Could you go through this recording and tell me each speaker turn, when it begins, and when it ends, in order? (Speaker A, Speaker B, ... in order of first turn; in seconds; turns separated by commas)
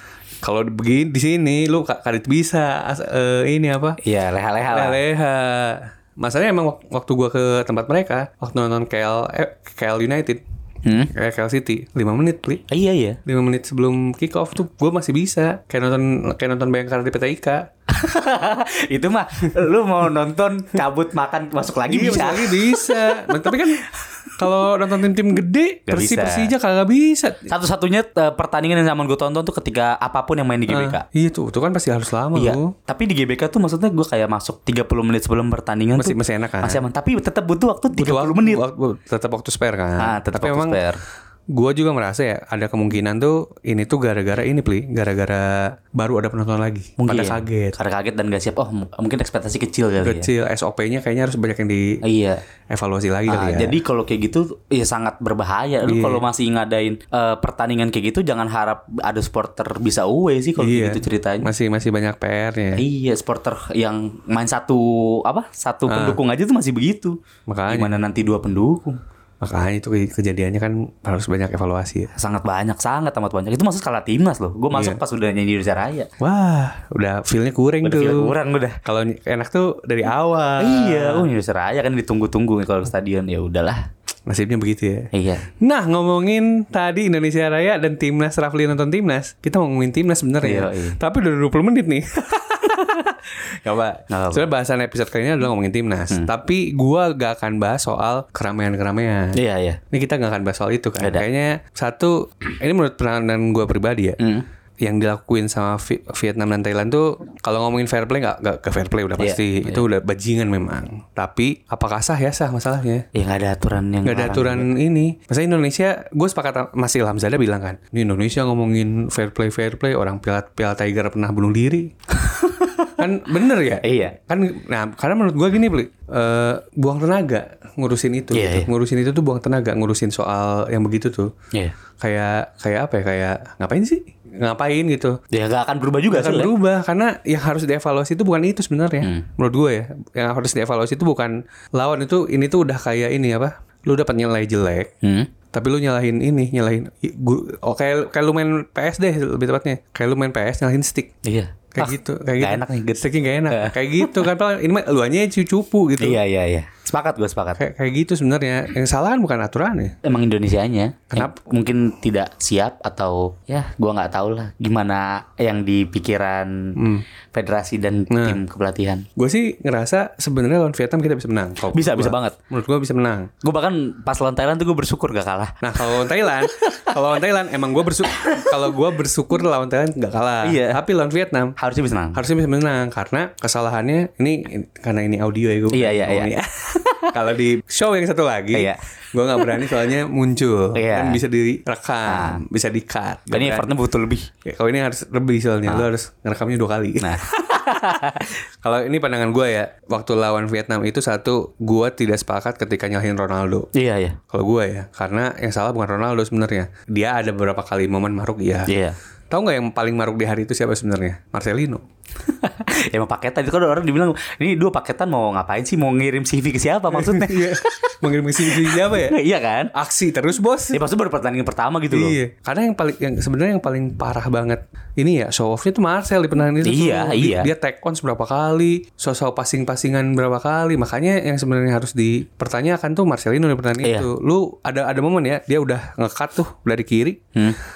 Speaker A: 0.4-4.0, Speaker B: 4.0-5.0, Speaker A: 4.7-10.4, Speaker B: 10.8-11.1, Speaker A: 11.1-12.6, Speaker B: 12.7-13.2, Speaker A: 13.3-17.7, Speaker B: 17.9-23.7, Speaker A: 21.9-23.8, Speaker A: 24.4-27.5, Speaker B: 25.9-26.5, Speaker B: 27.5-31.1, Speaker A: 30.7-32.7, Speaker B: 32.4-38.6, Speaker A: 36.0-36.8, Speaker A: 38.0-40.8, Speaker B: 40.0-41.0, Speaker A: 41.5-47.8, Speaker B: 47.0-50.3, Speaker A: 50.0-52.0, Speaker B: 52.0-52.4, Speaker A: 52.7-53.8, Speaker B: 53.3-61.5, Speaker A: 55.8-56.2, Speaker A: 60.6-62.8, Speaker B: 62.7-67.2, Speaker A: 65.9-66.2, Speaker A: 67.5-68.0, Speaker B: 67.7-69.0, Speaker A: 69.4-72.1, Speaker B: 72.2-76.1, Speaker A: 74.7-75.0, Speaker A: 76.2-81.3, Speaker B: 77.8-78.8, Speaker B: 80.6-83.9, Speaker A: 84.3-85.1, Speaker B: 85.1-85.5, Speaker A: 85.6-99.4, Speaker B: 90.4-91.0, Speaker B: 94.1-94.5, Speaker B: 99.3-99.8, Speaker A: 99.9-104.2, Speaker B: 101.0-101.2, Speaker A: 104.8-113.0, Speaker B: 109.2-109.8, Speaker B: 113.2-114.7, Speaker A: 114.0-121.9, Speaker B: 122.2-123.0, Speaker A: 123.0-131.3, Speaker B: 123.8-124.2, Speaker B: 128.3-128.7, Speaker A: 132.0-135.2, Speaker B: 135.3-136.5, Speaker A: 136.1-144.9, Speaker B: 145.0-145.3, Speaker A: 145.5-151.1, Speaker B: 151.2-154.3, Speaker A: 151.7-156.2, Speaker B: 156.0-157.6, Speaker A: 157.6-160.0, Speaker B: 160.0-166.8, Speaker A: 166.8-167.0, Speaker B: 167.3-169.1, Speaker A: 168.1-168.4, Speaker A: 169.2-173.3, Speaker B: 171.7-172.3, Speaker B: 173.4-177.2, Speaker A: 175.6-181.6, Speaker B: 178.0-178.8, Speaker B: 180.4-180.8, Speaker B: 181.6-182.2, Speaker A: 182.1-193.8, Speaker B: 185.7-187.2, Speaker B: 188.5-188.8, Speaker B: 189.3-189.8, Speaker B: 190.7-191.2, Speaker B: 192.1-192.4, Speaker B: 193.3-194.3, Speaker A: 194.4-197.7, Speaker B: 197.0-198.3, Speaker A: 198.6-203.7, Speaker B: 203.8-204.2, Speaker A: 204.3-208.7, Speaker B: 208.7-209.0, Speaker A: 209.3-211.8, Speaker B: 212.2-219.7, Speaker A: 216.9-219.2, Speaker A: 219.7-220.8, Speaker B: 220.7-222.2, Speaker A: 221.9-237.2, Speaker B: 226.6-227.5, Speaker B: 233.8-234.1